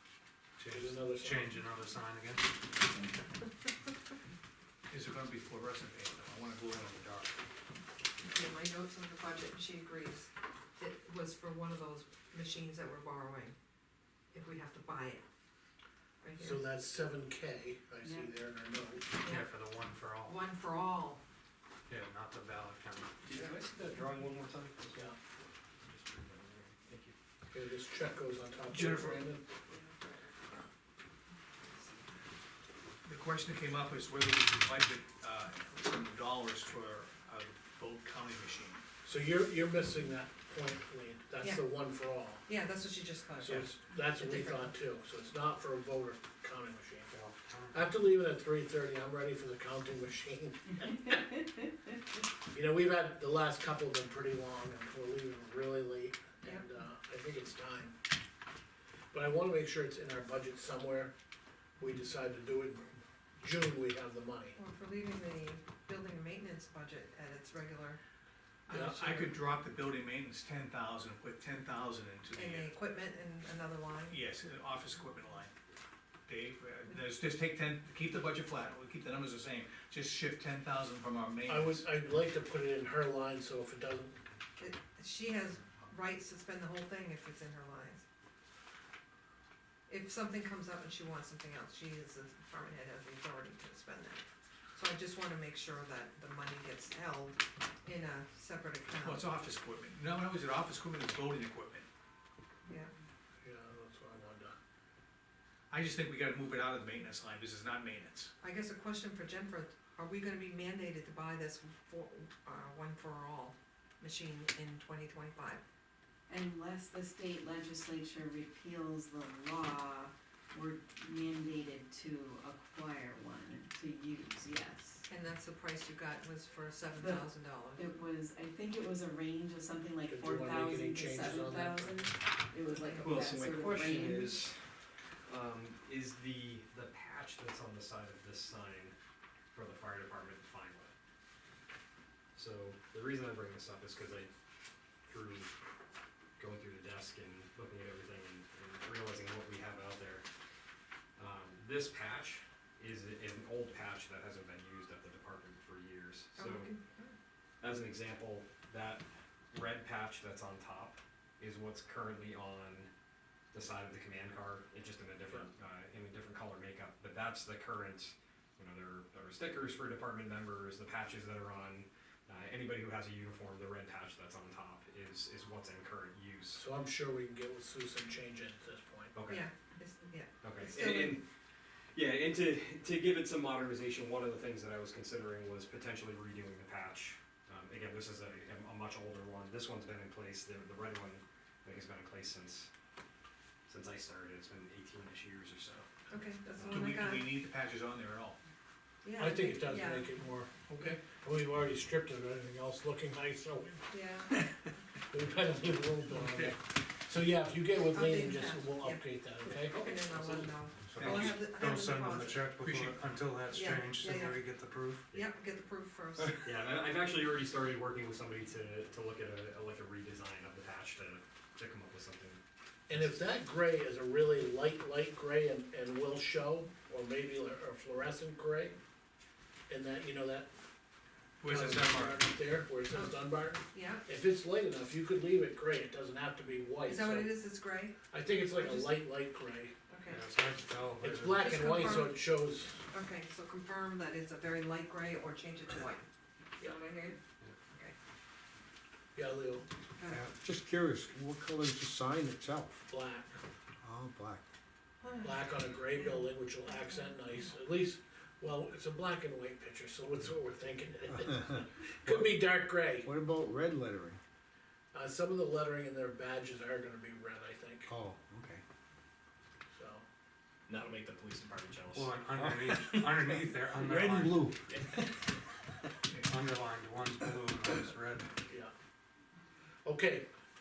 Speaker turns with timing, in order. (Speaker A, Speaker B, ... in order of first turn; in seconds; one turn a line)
Speaker A: 0.6-2.5
Speaker B: 0.7-1.5
Speaker C: 4.9-7.4
Speaker D: 8.3-13.6
Speaker D: 14.3-15.3
Speaker D: 16.2-16.6
Speaker B: 16.4-19.2
Speaker E: 18.0-18.3
Speaker D: 19.2-19.5
Speaker A: 19.3-20.4
Speaker D: 20.2-21.2
Speaker A: 21.9-23.2
Speaker F: 23.2-25.1
Speaker F: 25.8-27.1
Speaker B: 27.5-29.4
Speaker C: 28.7-29.3
Speaker D: 29.7-30.2
Speaker C: 33.0-38.8
Speaker B: 39.0-42.5
Speaker D: 41.4-44.8
Speaker B: 43.4-47.2
Speaker A: 47.1-47.7
Speaker B: 47.7-51.4
Speaker B: 52.5-58.0
Speaker B: 59.1-61.1
Speaker B: 61.8-64.6
Speaker D: 64.5-68.0
Speaker C: 68.7-72.7
Speaker B: 68.7-69.3
Speaker D: 72.3-74.2
Speaker C: 74.1-75.5
Speaker C: 76.3-81.9
Speaker B: 81.5-84.2
Speaker D: 84.6-88.0
Speaker D: 89.9-94.2
Speaker D: 94.8-99.3
Speaker C: 99.0-101.9
Speaker D: 102.7-102.9
Speaker B: 103.4-104.5
Speaker C: 105.7-108.3
Speaker D: 108.4-115.6
Speaker E: 116.3-125.0
Speaker D: 125.1-128.0
Speaker E: 127.0-134.4
Speaker B: 130.1-132.1
Speaker D: 132.8-133.1
Speaker F: 133.0-134.6
Speaker F: 135.3-138.9
Speaker F: 139.5-140.9
Speaker F: 142.3-144.3
Speaker F: 145.1-145.5
Speaker F: 146.4-150.2
Speaker F: 151.2-156.7
Speaker D: 156.4-157.2
Speaker F: 157.6-162.9
Speaker F: 163.5-176.7
Speaker B: 176.5-179.2
Speaker F: 179.1-179.4
Speaker D: 179.3-181.2
Speaker F: 180.4-181.2
Speaker F: 181.9-192.7
Speaker F: 193.7-195.9
Speaker D: 196.1-197.4
Speaker F: 196.6-196.9
Speaker C: 196.7-198.4
Speaker D: 199.0-200.2
Speaker B: 199.2-203.9
Speaker C: 200.7-201.0
Speaker D: 203.9-204.5
Speaker B: 205.1-209.8
Speaker C: 206.1-206.5
Speaker D: 207.9-212.6
Speaker F: 209.6-210.6
Speaker A: 210.9-215.1
Speaker C: 212.6-213.0
Speaker D: 213.5-214.6
Speaker D: 215.1-216.5
Speaker F: 216.2-222.4
Speaker B: 222.9-228.8
Speaker B: 229.7-230.5
Speaker C: 231.4-232.2
Speaker B: 231.5-237.4
Speaker D: 232.9-234.1
Speaker D: 236.9-239.1
Speaker B: 238.1-239.7
Speaker D: 239.9-240.3
Speaker A: 240.1-241.8
Speaker B: 241.0-242.8
Speaker D: 241.4-242.3
Speaker D: 242.9-246.1
Speaker D: 246.8-247.1
Speaker B: 249.2-249.7
Speaker D: 250.0-250.3
Speaker G: 250.1-252.8
Speaker B: 252.9-253.4
Speaker G: 253.8-254.4
Speaker D: 255.0-257.4
Speaker B: 255.2-263.1
Speaker G: 261.4-262.4
Speaker G: 263.0-264.2
Speaker B: 264.9-267.9
Speaker G: 267.9-268.6
Speaker B: 269.7-270.0
Speaker F: 270.7-272.1
Speaker A: 271.9-274.4
Speaker G: 272.5-274.7
Speaker A: 276.3-278.3
Speaker B: 279.9-280.3